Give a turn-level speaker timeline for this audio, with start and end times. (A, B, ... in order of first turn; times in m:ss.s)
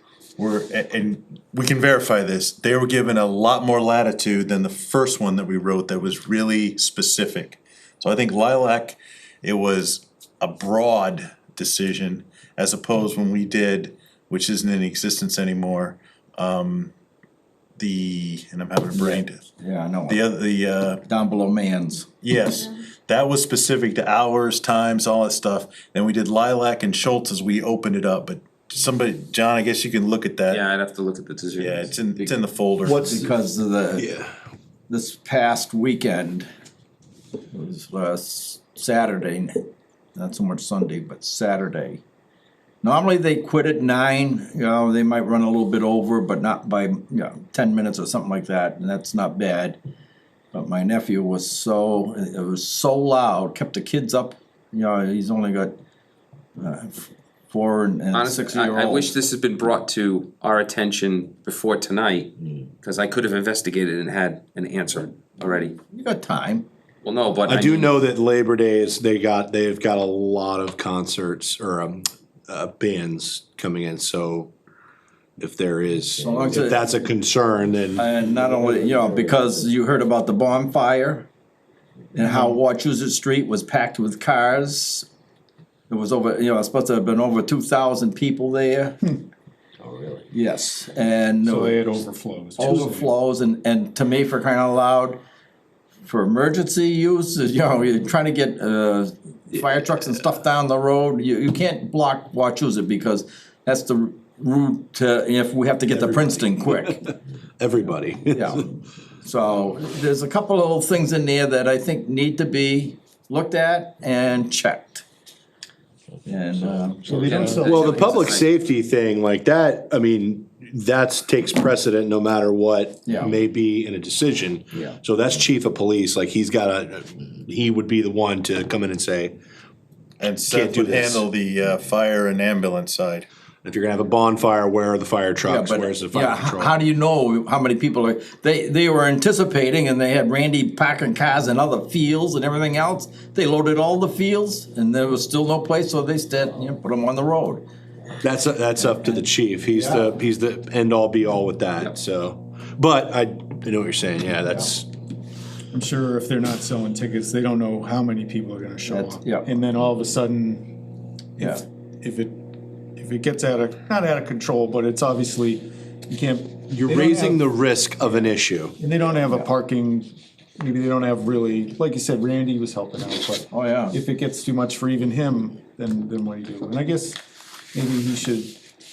0:00.4-0:16.9 A
0:17.8-0:19.5 A
0:18.9-0:20.2 B
0:20.1-0:21.0 A
0:21.0-0:22.1 B
0:22.2-0:30.6 A
0:30.5-0:32.3 C
0:31.6-0:33.2 A
0:32.8-0:33.3 D
0:33.1-0:34.1 B
0:34.0-0:34.3 D
0:34.9-0:36.5 B
0:37.5-0:39.6 B
0:40.2-0:42.0 B
0:42.8-0:49.8 B
0:50.5-0:55.8 B
0:56.6-0:59.1 B
0:58.1-1:05.8 C
1:05.9-1:06.6 B
1:07.0-1:07.9 C
1:07.4-1:14.5 D
1:15.4-1:18.1 D
1:16.2-1:16.9 B
1:18.0-1:21.3 B
1:22.1-1:25.1 B
1:22.2-1:22.6 E
1:25.9-1:29.0 B
1:30.3-1:31.8 B
1:31.4-1:33.1 E
1:32.6-1:35.2 B
1:36.0-1:47.0 B
1:45.9-1:46.3 D
1:47.6-1:48.6 D
1:48.3-1:48.7 B
1:49.2-1:55.0 B
1:56.3-1:58.1 B
1:57.0-1:57.9 E
1:57.2-1:58.5 C
1:57.6-2:09.4 D
2:03.1-2:03.3 B
2:10.2-2:13.3 A
2:10.5-2:11.2 D
2:13.6-2:16.7 D
2:15.4-2:27.6 B
2:28.2-2:34.9 D
2:35.7-2:40.8 E
2:38.9-2:39.5 B
2:41.4-2:57.2 E
2:46.7-2:48.8 D
2:49.1-2:49.5 B
2:53.5-2:54.0 B
2:57.7-2:58.6 E